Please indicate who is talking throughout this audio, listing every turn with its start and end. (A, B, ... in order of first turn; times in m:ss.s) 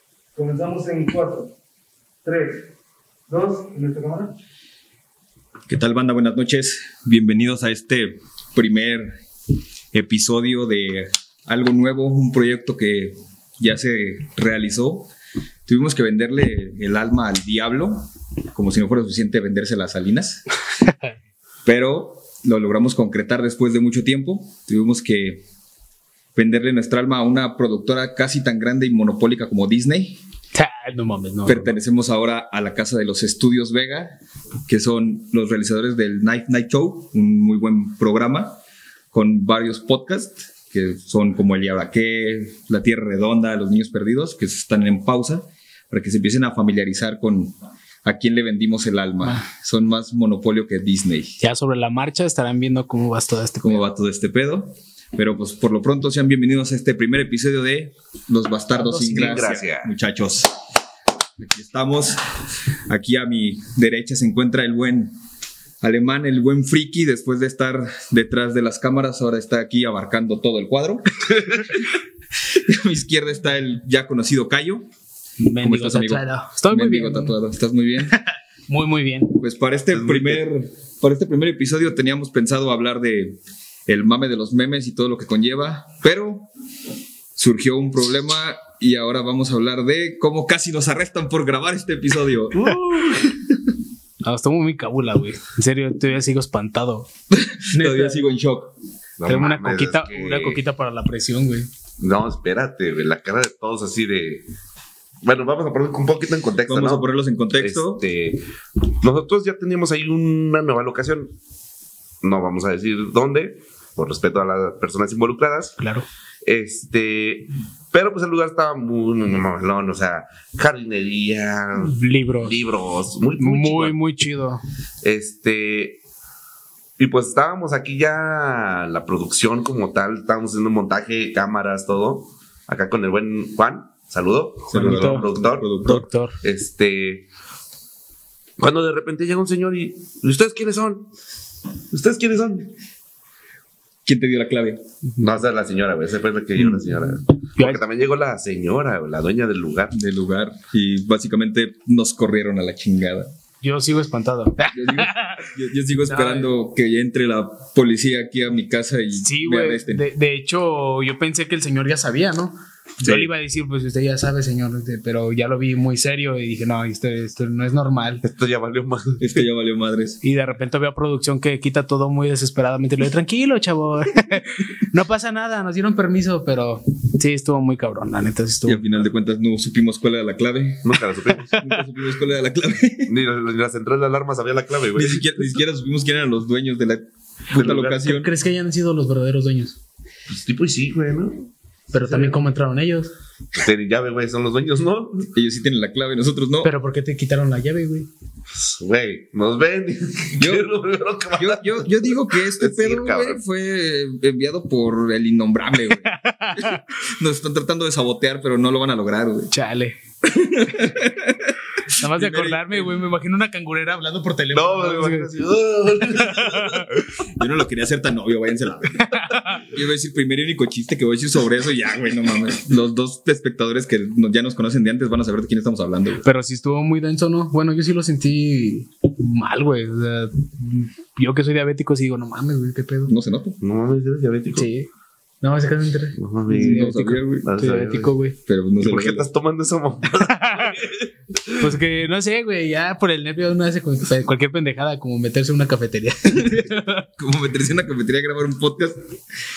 0:00.4-0:01.5 A
0:03.3-0:04.3 A
0:05.7-0:09.1 B
0:09.9-0:15.1 B
0:15.7-0:20.4 B
0:21.6-0:25.4 B
0:26.4-0:30.2 B
0:30.5-0:31.7 C
0:31.4-0:34.2 B
0:34.7-0:38.6 B
0:39.1-0:51.4 B
0:51.4-0:53.8 C
0:53.6-1:00.5 B
0:58.7-0:59.5 C
0:59.1-0:59.9 D
1:01.4-1:02.2 B
1:02.9-1:05.1 B
1:05.8-1:12.0 B
1:12.5-1:14.9 B
1:15.4-1:17.4 C
1:15.6-1:18.2 B
1:18.7-1:19.4 C
1:19.3-1:26.5 B
1:19.9-1:20.4 D
1:27.4-1:32.8 B
1:32.5-1:33.5 D
1:34.2-1:37.1 C
1:37.3-1:38.7 B
1:37.7-1:38.3 C
1:39.2-1:40.6 D
1:39.2-1:41.7 C
1:42.0-1:44.4 D
1:45.2-1:51.3 D
1:46.7-1:48.0 B
1:52.2-1:55.8 D
1:55.8-1:56.0 C
1:56.4-2:04.0 D
2:01.8-2:02.6 C
2:03.4-2:04.6 C
2:05.0-2:06.0 D
2:07.0-2:15.8 D
2:14.7-2:15.3 C
2:14.7-2:16.1 B
2:15.8-2:16.4 C
2:16.4-2:17.3 D
2:18.6-2:21.1 D
2:21.9-2:22.7 D
2:24.1-2:24.8 B
2:25.2-2:30.0 D
2:29.9-2:33.3 B
2:33.6-2:35.5 C
2:34.7-2:40.0 B
2:36.1-2:36.5 C
2:39.2-2:48.2 C
2:43.0-2:43.3 D
2:48.2-2:49.4 D
2:49.2-2:50.2 B
2:50.2-2:58.8 C
2:58.6-3:03.1 B
3:00.8-3:01.6 D
3:03.1-3:05.5 D
3:05.0-3:08.3 B
3:07.5-3:08.0 D
3:07.9-3:09.8 C
3:10.3-3:12.4 D
3:11.9-3:13.1 C
3:13.5-3:15.3 D
3:15.3-3:16.7 B
3:16.6-3:18.1 C
3:18.5-3:23.4 D
3:20.4-3:20.7 B
3:21.4-3:29.5 B
3:26.0-3:26.9 C
3:29.5-3:30.0 C
3:30.2-3:33.0 B
3:31.9-3:35.3 C
3:34.5-3:37.0 D
3:36.1-3:36.9 C
3:37.3-3:46.2 B
3:39.1-3:39.7 C
3:46.2-3:53.1 C
3:53.1-3:53.6 B
3:53.6-3:54.7 D
3:54.6-3:54.9 C
3:55.4-3:58.4 C
3:56.2-3:58.1 D
3:56.5-3:57.5 B
3:58.5-3:59.3 B
3:58.8-4:01.6 D
4:00.1-4:00.8 C
4:01.6-4:07.1 C
4:07.2-4:09.0 B